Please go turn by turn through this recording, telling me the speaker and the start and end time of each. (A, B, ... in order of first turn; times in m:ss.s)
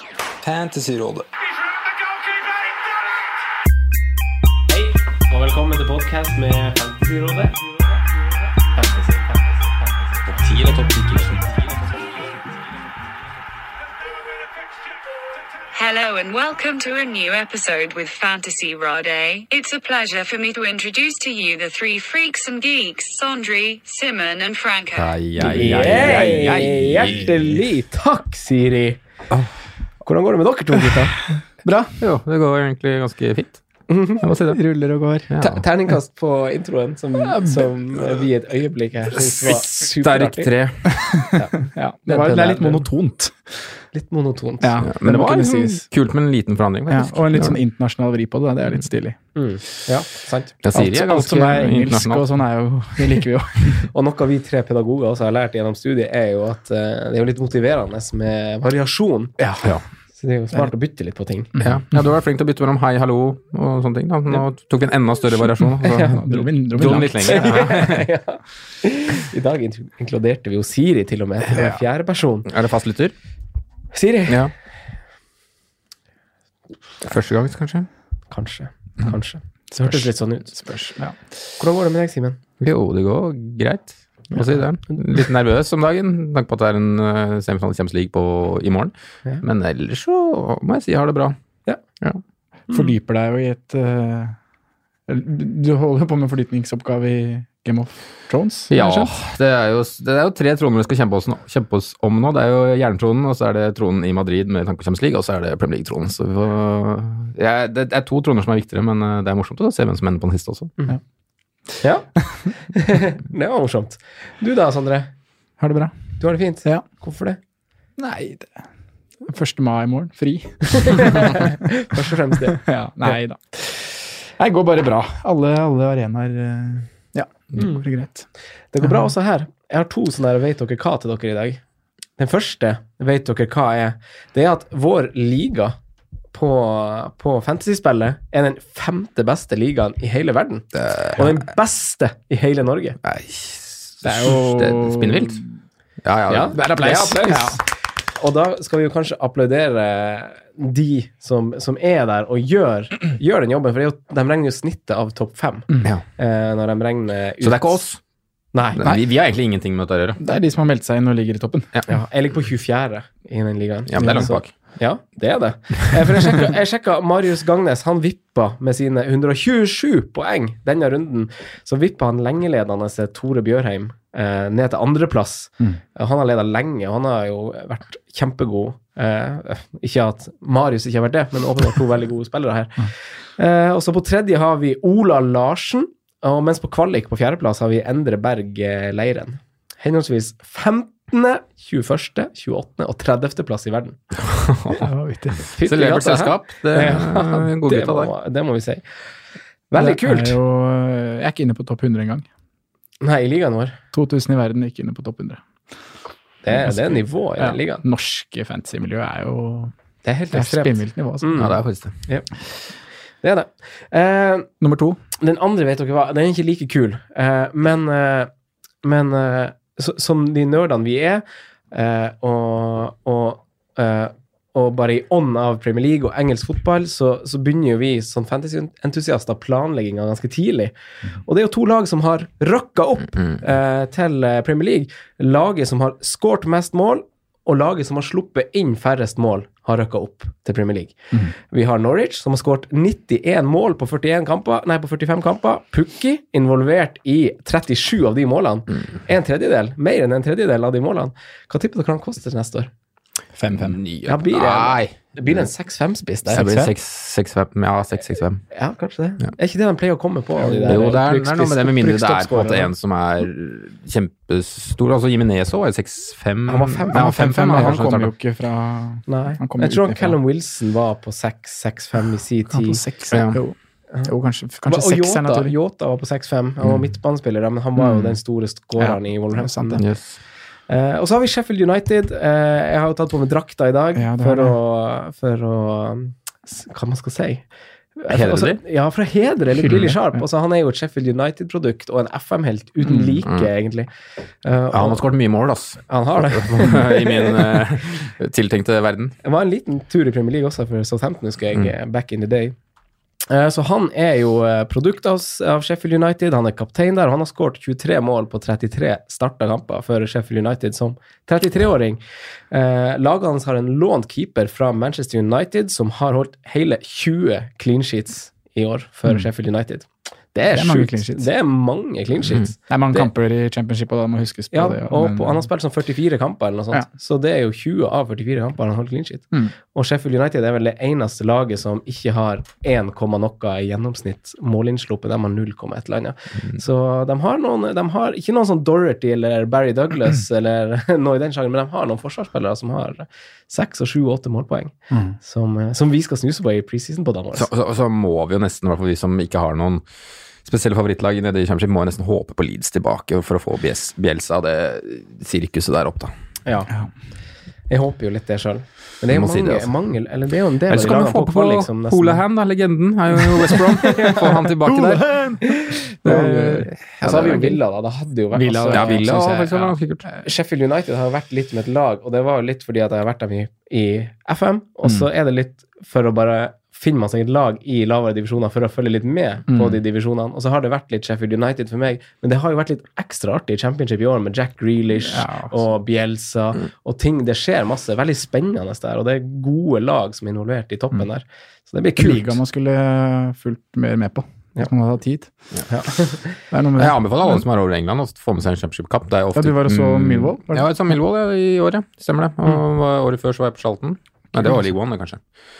0:00.4-0:01.2 A
0:04.7-0:08.0 B
0:08.6-0:10.5 B
0:10.3-0:11.5 A
0:11.2-0:12.4 B
0:15.7-0:25.1 C
0:24.9-0:27.4 A
0:25.4-0:29.0 B
0:30.0-0:31.2 B
0:31.6-0:32.0 D
0:32.0-0:33.6 A
0:33.9-0:34.3 B
0:34.2-0:34.6 A
0:34.4-0:35.3 D
0:35.3-0:35.6 A
0:35.4-0:40.5 B
0:39.1-0:41.0 A
0:41.1-0:43.8 D
0:41.3-0:42.8 B
0:42.3-0:42.6 A
0:43.9-0:44.8 B
0:44.6-0:45.8 D
0:44.8-0:47.6 A
0:46.9-0:49.2 D
0:49.3-0:50.6 B
0:50.6-0:52.3 A
0:50.7-0:53.9 D
0:53.9-0:59.4 B
0:59.4-0:59.7 D
1:00.1-1:01.5 B
1:01.6-1:02.0 D
1:01.6-1:08.0 A
1:05.6-1:07.8 D
1:05.8-1:06.2 B
1:07.2-1:12.5 B
1:12.4-1:13.1 A
1:13.9-1:14.5 B
1:17.0-1:17.9 A
1:18.3-1:20.5 B
1:19.7-1:21.2 D
1:21.6-1:22.4 B
1:22.6-1:31.4 A
1:32.7-1:34.4 D
1:35.1-1:39.1 D
1:38.7-1:50.7 A
1:51.8-1:55.1 B
1:55.6-1:56.0 D
1:56.2-1:57.4 B
1:58.0-1:58.6 D
1:59.2-2:02.0 D
2:00.7-2:02.6 B
2:02.5-2:08.3 D
2:07.6-2:07.8 B
2:08.7-2:11.6 B
2:12.2-2:15.8 B
2:16.3-2:23.0 B
2:20.7-2:21.3 A
2:23.0-2:25.4 A
2:24.0-2:25.4 D
2:26.0-2:27.4 A
2:26.3-2:37.8 B
2:26.6-2:27.6 D
2:37.4-2:38.0 A
2:38.5-2:38.8 B
2:38.8-2:40.2 A
2:40.2-2:41.7 D
2:41.9-3:14.0 B
2:43.9-2:44.5 A
2:44.0-2:44.3 D
3:14.2-3:14.8 A
3:14.8-3:15.4 D
3:15.5-3:18.8 B
3:15.6-3:18.1 A
3:19.7-3:20.4 B
3:19.8-3:22.2 D
3:23.0-3:23.8 B
3:23.9-3:25.4 D
3:26.4-3:27.8 B
3:26.5-3:29.7 D
3:30.0-3:31.5 B
3:30.3-3:31.5 D
3:31.4-3:32.0 A
3:33.2-3:34.5 B
3:34.6-3:35.0 D
3:35.2-3:38.3 B
3:38.8-4:12.7 B
4:13.3-4:13.8 D
4:13.5-4:14.9 A
4:14.0-4:16.4 B
4:16.3-4:18.4 A
4:16.3-4:16.7 D
4:18.5-4:22.7 B
4:20.4-4:21.0 D
4:20.7-4:28.1 A
4:26.5-4:27.9 B
4:26.9-4:30.2 D
4:29.1-4:32.8 B
4:32.5-4:35.5 D
4:33.1-4:33.4 A
4:34.6-4:39.8 B
4:38.8-4:39.8 D
4:39.8-4:40.2 A
4:40.7-4:47.4 B
4:43.9-4:44.6 D
4:48.0-4:53.9 B
4:48.1-4:48.6 A
4:49.6-4:50.0 D
4:52.8-4:53.2 D
4:54.4-4:55.0 B
4:54.7-4:59.1 A
4:55.9-4:57.5 B
4:59.2-5:02.5 B
5:03.3-5:23.0 B
5:20.5-5:21.2 D
5:22.7-5:25.5 D
5:24.5-5:47.5 B
5:47.3-5:49.8 A
5:50.4-5:56.1 A
5:56.4-5:56.7 B
5:57.7-6:02.2 B
5:59.1-5:59.7 A
6:00.7-6:05.1 A
6:03.9-6:04.2 B
6:04.6-6:06.7 D
6:06.0-6:07.6 A
6:07.0-6:09.1 B
6:08.3-6:10.2 D
6:08.7-6:10.1 A
6:10.2-6:32.4 B
6:19.5-6:19.8 D
6:25.0-6:25.7 D
6:32.0-6:35.3 D
6:35.7-6:36.4 B
6:36.5-6:37.4 D
6:36.8-6:45.2 A
6:39.3-6:40.8 D